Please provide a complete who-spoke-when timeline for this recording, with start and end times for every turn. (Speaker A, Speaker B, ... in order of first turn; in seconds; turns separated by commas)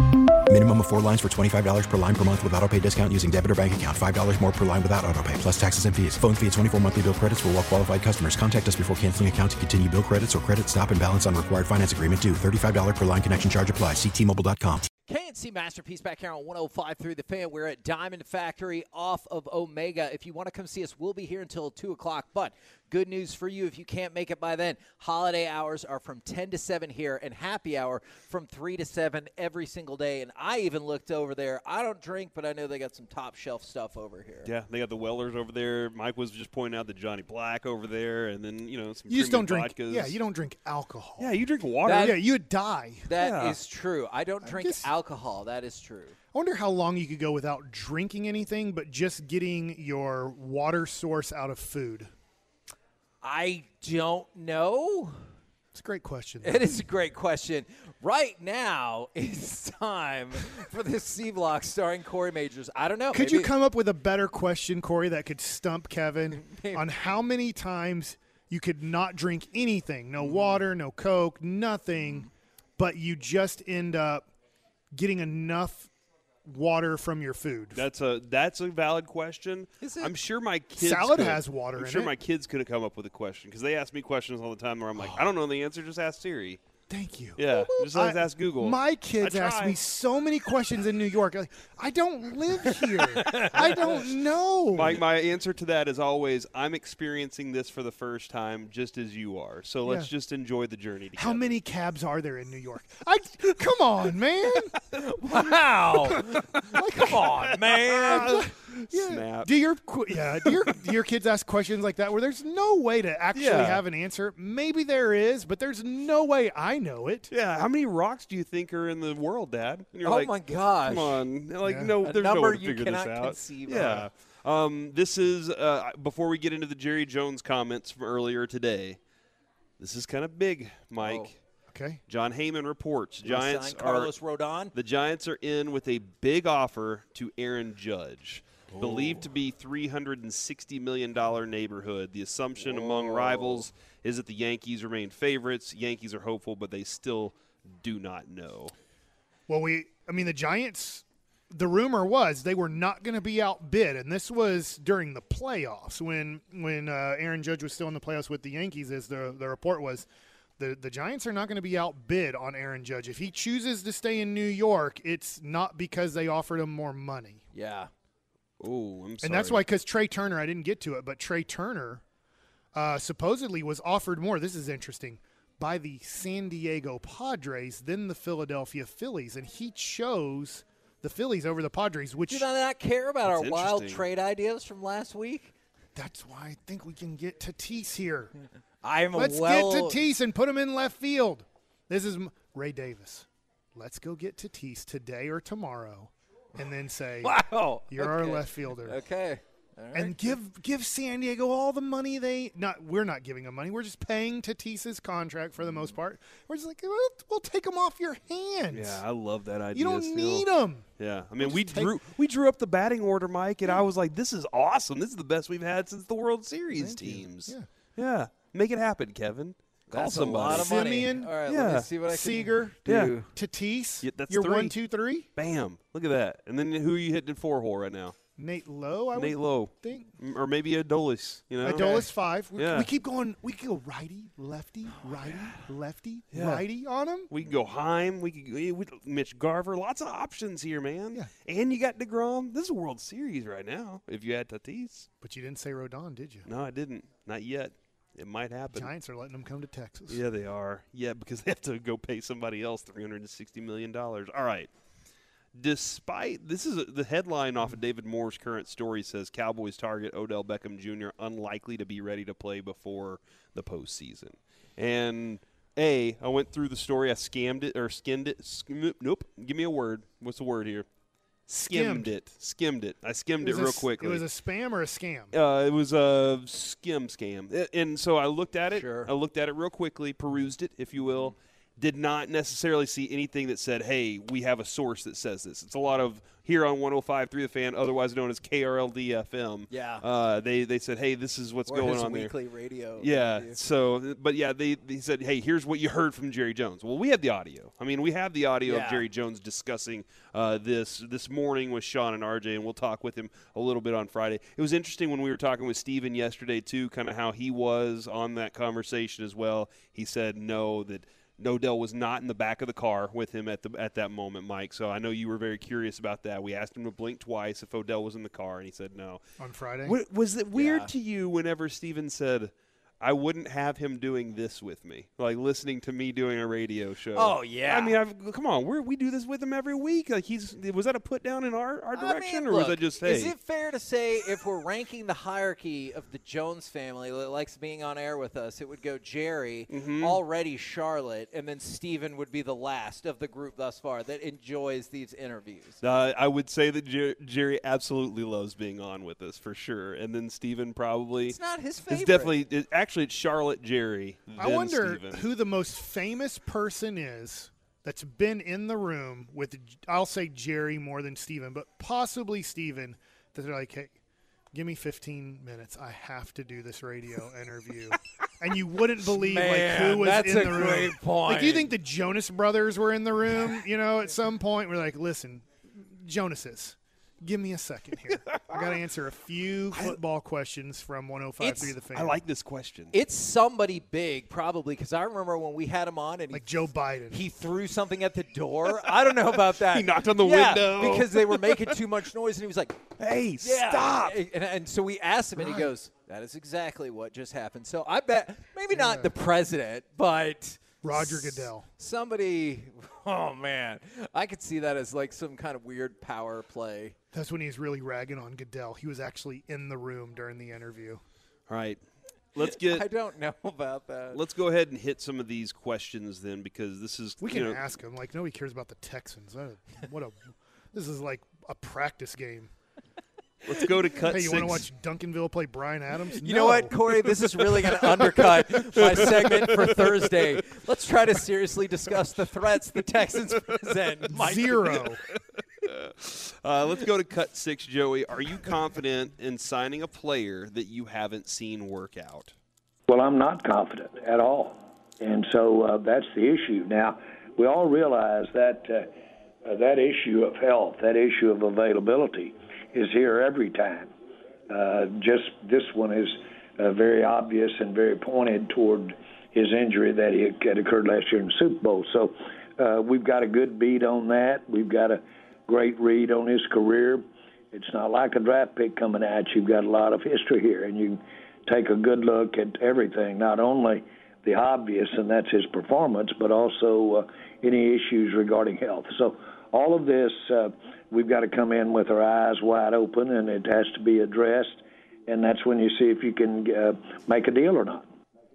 Speaker A: 0.5-14.9, Speaker B: 15.1-34.5, Speaker C: 34.4-40.2, Speaker D: 39.1-41.3, Speaker C: 41.2-42.2, Speaker B: 41.9-42.2, Speaker D: 41.9-43.1, Speaker B: 43.1-46.1, Speaker C: 43.1-43.6, Speaker D: 44.4-44.9, Speaker D: 46.3-52.1, Speaker B: 53.2-55.2, Speaker D: 55.7-56.7, Speaker B: 56.4-63.5, Speaker D: 63.1-74.2, Speaker B: 66.3-66.9, Speaker B: 70.3-70.5, Speaker D: 74.9-75.9, Speaker D: 76.5-77.8, Speaker C: 77.7-86.6, Speaker B: 79.8-80.1, Speaker D: 80.8-82.1, Speaker D: 85.0-85.2, Speaker D: 86.9-95.0, Speaker C: 87.4-89.8, Speaker B: 93.2-94.0, Speaker C: 94.7-101.5, Speaker D: 99.8-100.1, Speaker D: 101.2-104.7, Speaker B: 104.9-108.4, Speaker C: 107.2-109.5, Speaker D: 108.1-117.3, Speaker C: 110.4-110.8, Speaker C: 113.3-113.8, Speaker C: 117.3-129.0, Speaker B: 120.0-121.2, Speaker D: 121.6-121.9, Speaker B: 122.0-124.1, Speaker C: 129.8-131.4, Speaker B: 131.0-131.3, Speaker D: 131.7-132.0, Speaker C: 132.1-134.1, Speaker B: 133.2-134.7, Speaker C: 134.7-148.7, Speaker B: 138.7-139.2, Speaker B: 142.6-143.6, Speaker D: 149.5-160.1, Speaker D: 160.6-167.4, Speaker B: 167.5-167.9, Speaker C: 168.6-169.6, Speaker D: 169.2-172.0, Speaker D: 172.7-182.4, Speaker B: 182.3-185.5, Speaker C: 183.2-184.0, Speaker D: 185.9-188.3, Speaker B: 188.8-190.0, Speaker D: 189.1-197.3, Speaker B: 197.2-200.4, Speaker D: 197.9-199.0, Speaker D: 199.9-209.0, Speaker C: 208.7-220.9, Speaker D: 209.7-210.9, Speaker D: 211.4-212.0, Speaker D: 216.7-217.7, Speaker B: 219.9-223.3, Speaker D: 220.4-221.3, Speaker C: 221.5-221.9, Speaker D: 222.0-222.8, Speaker C: 222.8-223.2, Speaker D: 223.3-225.2, Speaker C: 224.0-224.7, Speaker C: 225.3-228.2, Speaker D: 228.4-230.1, Speaker C: 229.1-232.9, Speaker D: 231.6-237.3, Speaker B: 231.7-232.0, Speaker C: 236.3-236.6, Speaker C: 237.3-245.1, Speaker D: 245.2-246.5, Speaker C: 246.4-248.9, Speaker D: 248.7-250.2, Speaker C: 250.1-254.7, Speaker C: 255.5-270.9, Speaker C: 271.5-274.2, Speaker D: 271.5-272.1, Speaker D: 273.4-275.3, Speaker C: 275.3-292.3, Speaker B: 278.7-279.1, Speaker B: 289.7-290.0, Speaker B: 291.7-293.6, Speaker C: 293.0-319.2, Speaker B: 298.6-299.1, Speaker D: 319.4-319.9, Speaker C: 319.8-333.3, Speaker B: 320.5-320.9, Speaker B: 327.1-328.0, Speaker B: 331.9-345.8, Speaker C: 339.7-340.2, Speaker C: 345.8-351.4, Speaker B: 351.2-352.4, Speaker C: 351.9-355.2, Speaker D: 354.4-363.9, Speaker D: 364.5-382.2, Speaker B: 369.0-371.7, Speaker B: 381.4-381.7, Speaker C: 381.9-382.9, Speaker B: 382.9-386.5, Speaker D: 386.3-387.2, Speaker B: 387.1-392.8, Speaker C: 388.9-391.8, Speaker C: 393.0-394.2, Speaker B: 393.4-406.9, Speaker D: 395.4-395.7, Speaker D: 398.7-399.1, Speaker D: 400.8-401.7, Speaker D: 407.1-411.0, Speaker C: 411.5-411.8, Speaker C: 412.3-412.9, Speaker B: 412.4-414.2, Speaker C: 414.1-417.6, Speaker D: 417.2-422.5, Speaker C: 423.4-424.7, Speaker D: 424.0-426.8, Speaker B: 426.1-434.8, Speaker C: 428.8-429.9, Speaker D: 434.1-435.0, Speaker C: 435.6-442.3, Speaker E: 442.9-448.9, Speaker E: 449.4-453.9, Speaker E: 454.5-487.9